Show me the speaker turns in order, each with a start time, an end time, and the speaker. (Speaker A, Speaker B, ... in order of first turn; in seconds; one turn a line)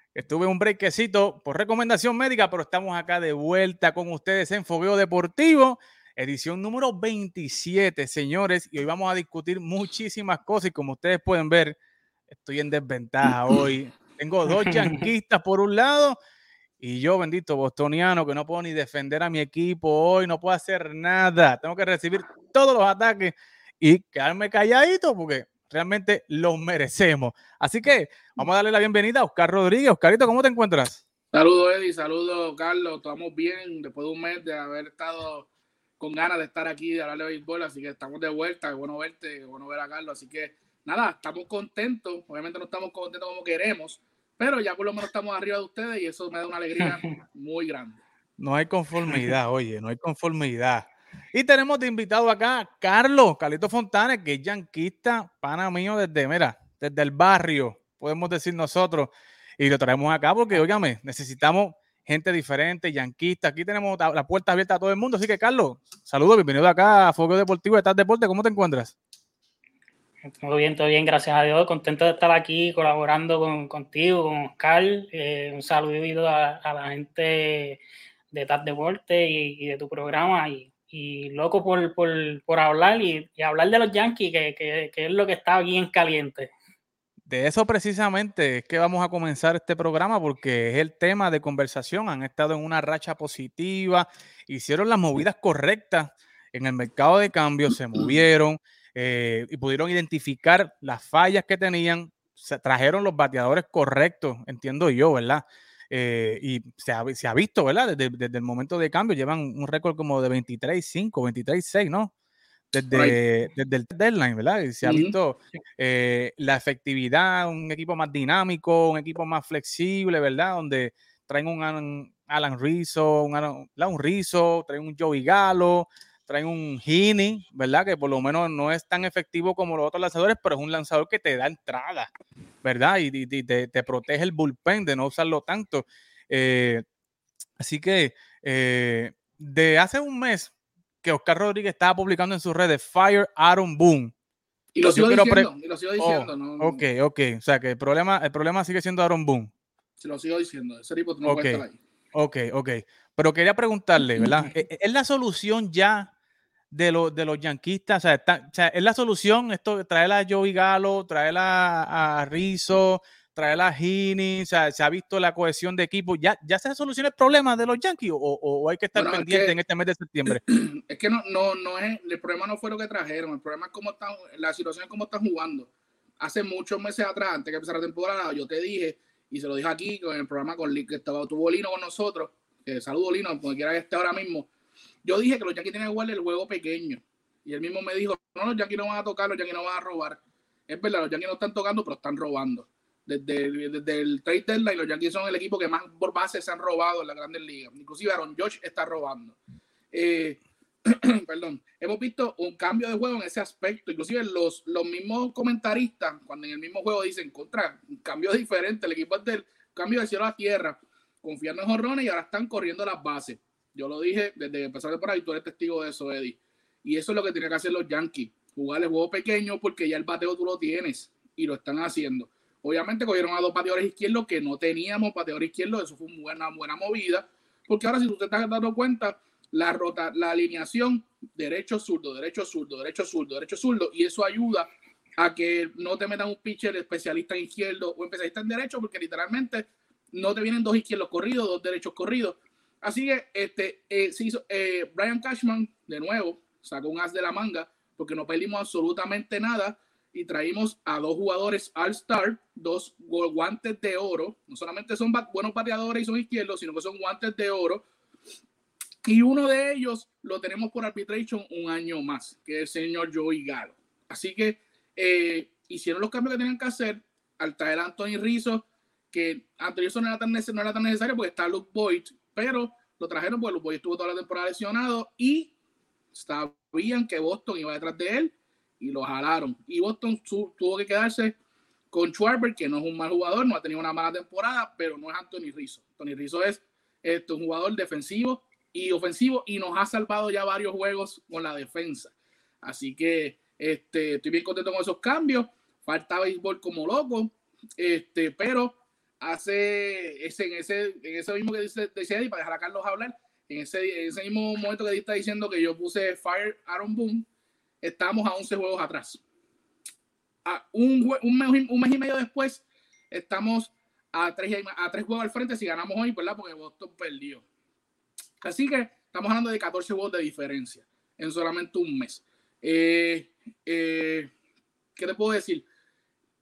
Speaker A: 0.1-11.8
Speaker A: 12.3-16.2
Speaker B: 14.6-15.0
Speaker A: 16.8-31.0
Speaker C: 31.3-35.5
Speaker C: 36.0-48.0
Speaker B: 46.8-47.2
Speaker A: 48.4-69.0
Speaker B: 70.4-77.8
Speaker B: 78.3-86.5
Speaker A: 87.3-112.1
Speaker A: 112.7-132.1
Speaker C: 112.9-113.2
Speaker C: 114.8-115.1
Speaker A: 132.6-136.8
Speaker A: 137.6-140.5
Speaker A: 141.0-144.1
Speaker C: 144.7-146.8
Speaker A: 144.9-149.5
Speaker C: 150.0-151.8
Speaker A: 151.2-151.6
Speaker A: 152.1-156.1
Speaker A: 156.7-170.4
Speaker C: 168.9-169.6
Speaker C: 170.3-175.7
Speaker C: 176.2-184.5
Speaker C: 185.0-199.4
Speaker C: 199.9-257.9
Speaker C: 259.0-275.5
Speaker C: 276.1-281.3
Speaker C: 281.9-307.2
Speaker C: 307.8-309.2
Speaker C: 310.4-317.4
Speaker C: 318.4-324.3
Speaker C: 324.9-325.6